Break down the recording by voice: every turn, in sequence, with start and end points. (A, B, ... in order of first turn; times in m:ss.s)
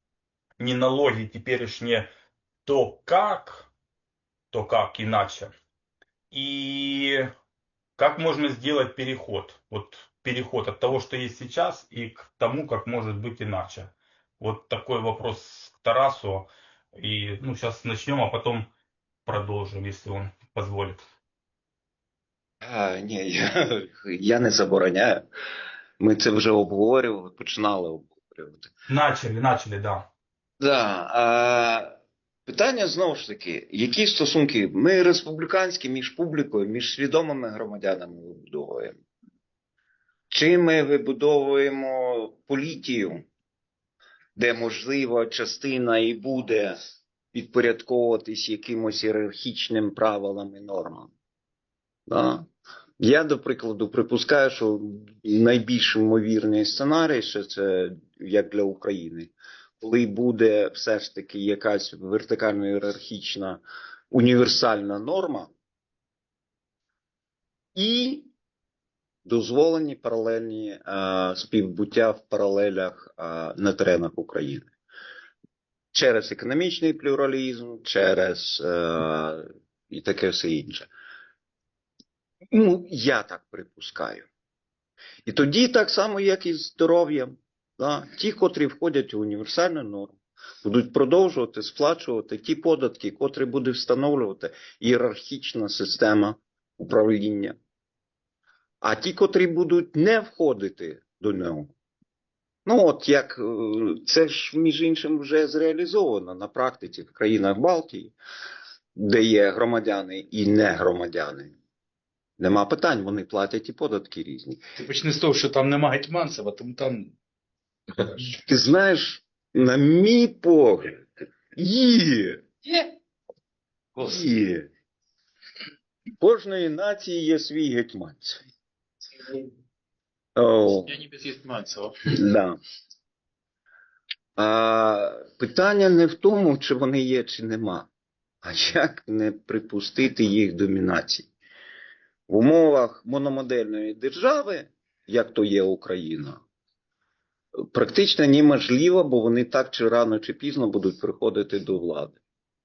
0:00.6-0:02.1 A
0:02.6-0:03.7 A
0:04.5-0:05.5 A
0:06.3-0:07.3 A
0:08.0-0:18.7 A
0:19.2-0:21.0 A
0:22.6-0:25.2 B
0:26.0-0:28.7 B
0:28.9-0:30.0 A
0:30.6-0:39.0 B
0:40.3-0:43.2 B
0:44.4-0:46.8 B
0:47.3-0:51.1 B
0:52.1-0:52.4 B
0:53.0-1:05.5 B
1:07.7-1:08.3 B
1:09.2-1:14.7 B
1:15.9-1:20.9 B
1:22.5-1:24.3 B
1:25.2-1:37.6 B
1:38.8-1:41.7 B
1:42.6-1:48.1 B
1:48.9-1:51.5 B
1:52.4-1:54.6 B
1:54.8-1:57.1 C
1:58.0-1:58.3 C
1:58.4-2:02.4 B
2:02.6-2:02.9 C
2:04.0-2:04.2 C
2:04.0-2:04.7 B
2:06.2-2:08.4 B
2:10.4-2:11.0 B
2:11.1-2:11.9 C
2:12.0-2:12.6 B
2:14.4-2:17.9 B
2:18.4-2:21.3 B
2:22.3-2:26.4 B
2:27.7-2:32.2 B